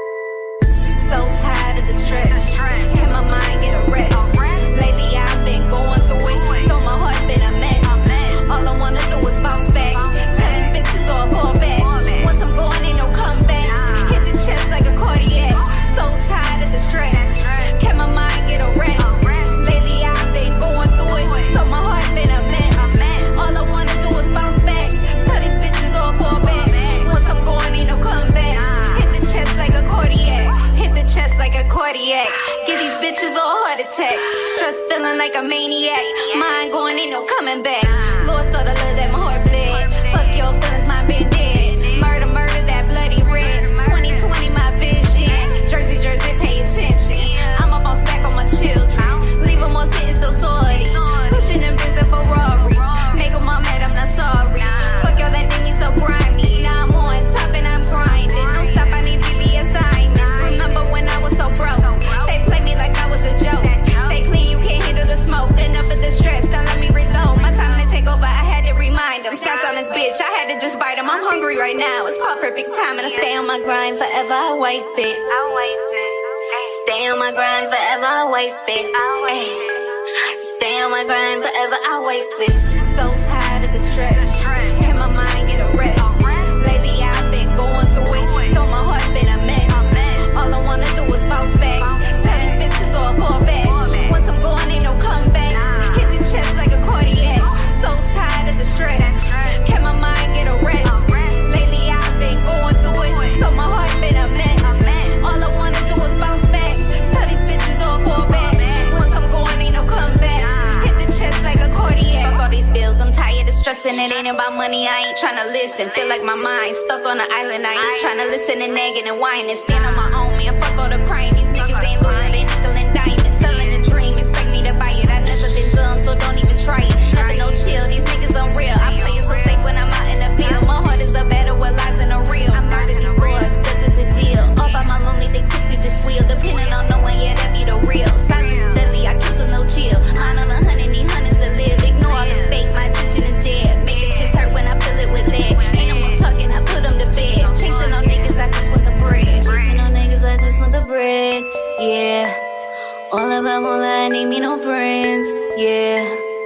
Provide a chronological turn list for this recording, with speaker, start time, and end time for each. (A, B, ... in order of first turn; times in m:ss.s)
0:00.9-1:19.7 A
1:20.4-2:32.4 A
2:33.1-2:36.1 A